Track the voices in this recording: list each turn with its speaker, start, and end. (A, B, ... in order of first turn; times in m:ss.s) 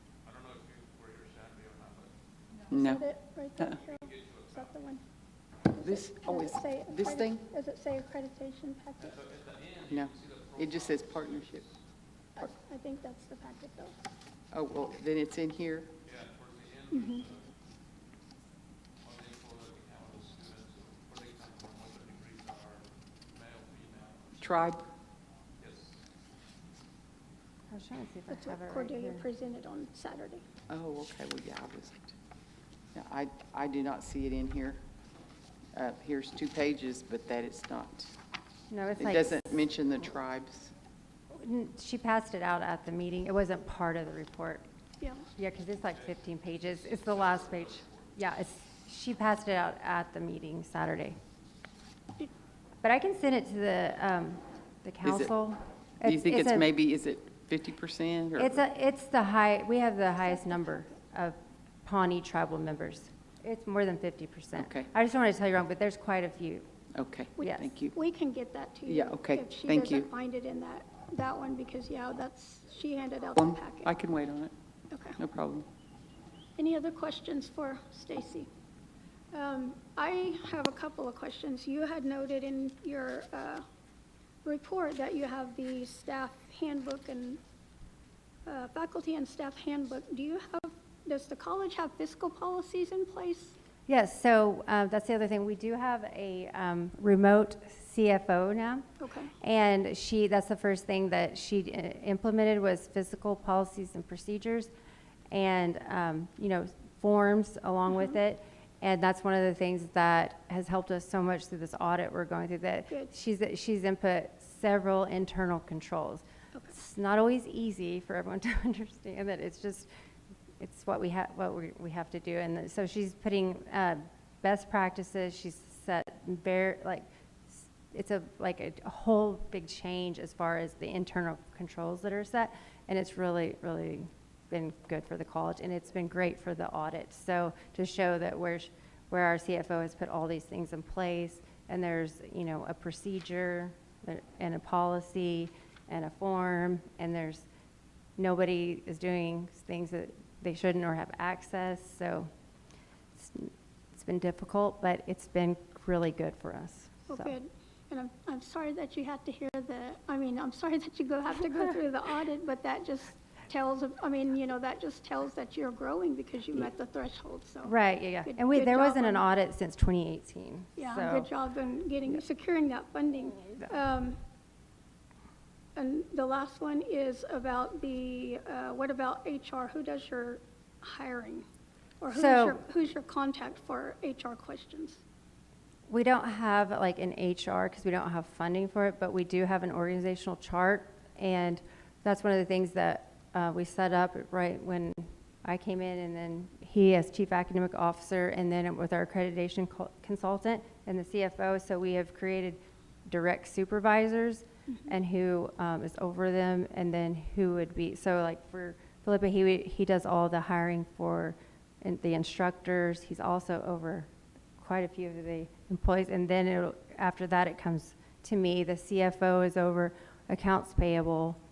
0:00.2-0:02.1 A
0:02.7-0:03.0 B
0:02.7-0:05.0 C
0:03.9-0:04.8 A
0:05.7-0:09.2 C
0:05.8-0:07.4 B
0:09.0-0:11.8 A
0:09.9-0:11.6 B
0:12.4-0:14.0 C
0:14.5-0:15.9 B
0:16.0-0:17.5 A
0:16.9-0:17.2 C
0:19.0-0:26.0 A
0:24.4-0:24.8 B
0:27.7-0:29.2 D
0:28.3-0:30.4 C
0:30.7-0:32.1 B
0:32.9-0:34.8 B
0:35.7-0:38.1 B
0:38.7-0:39.5 D
0:39.0-0:40.7 B
0:41.3-0:44.6 D
0:45.4-0:51.2 D
0:45.7-0:48.2 A
0:52.8-0:56.7 D
0:55.0-0:55.3 B
0:56.0-0:58.6 B
0:58.4-1:06.7 D
1:00.2-1:00.9 C
1:04.6-1:04.9 B
1:06.9-1:07.9 B
1:07.4-1:13.9 C
1:07.4-1:07.7 D
1:08.8-1:10.1 B
1:13.3-1:14.5 B
1:14.9-1:15.2 C
1:15.2-1:15.6 B
1:16.6-1:18.5 C
1:19.3-1:23.6 C
1:24.4-1:27.4 C
1:28.4-1:33.6 C
1:33.9-1:38.9 D
1:39.0-1:39.3 C
1:39.4-1:44.7 D
1:45.3-1:59.9 D
1:47.9-1:48.1 C
2:00.6-2:27.5 D
2:28.2-2:32.3 D
2:33.2-2:37.3 D
2:37.1-2:49.2 C
2:47.6-2:51.3 D
2:50.8-2:54.2 C
2:55.8-3:01.4 C
3:02.0-3:05.0 C
3:02.1-3:02.6 D
3:05.9-3:41.4 D